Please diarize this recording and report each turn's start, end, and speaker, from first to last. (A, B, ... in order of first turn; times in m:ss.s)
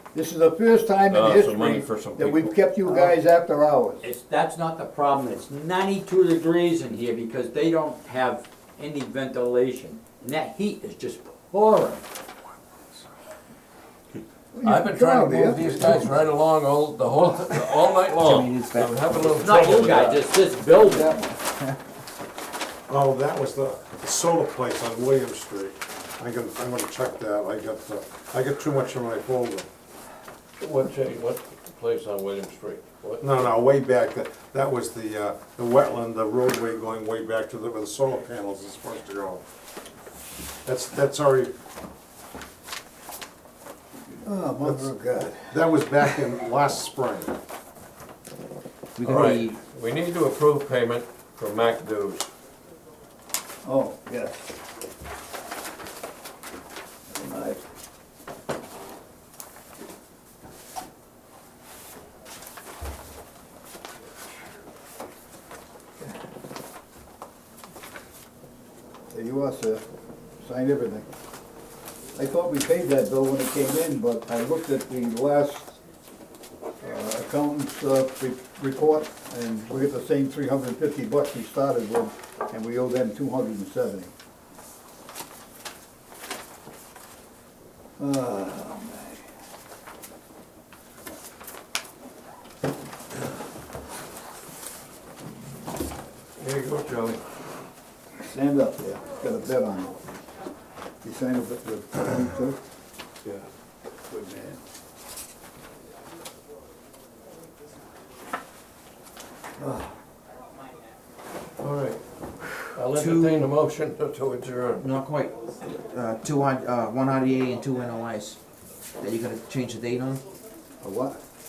0:00.1-0:04.1 A
0:01.1-0:02.5 B
0:04.0-0:12.0 C
0:14.5-0:16.2 A
0:14.6-0:20.3 B
0:18.2-0:19.0 D
0:19.2-0:21.2 C
0:22.9-0:29.7 E
0:30.6-0:33.5 B
0:33.2-0:39.4 E
0:40.6-0:41.5 E
0:44.2-0:46.0 A
0:44.6-0:44.9 E
0:45.5-0:47.4 E
0:49.0-0:49.6 D
0:49.0-0:52.3 B
0:49.1-0:49.4 E
0:53.6-0:54.5 A
0:57.1-0:57.6 A
1:09.1-1:09.8 A
1:10.4-1:11.1 A
1:12.2-1:15.8 A
1:16.8-1:24.1 A
1:28.0-1:29.2 A
1:36.4-1:37.2 B
1:38.2-1:40.1 A
1:41.0-1:42.6 A
1:44.1-1:44.6 A
1:49.6-1:49.9 A
1:51.6-1:52.0 B
1:52.7-1:55.0 B
1:52.9-1:53.5 D
1:54.8-1:58.4 D
1:59.0-2:00.2 D
2:00.8-2:01.2 A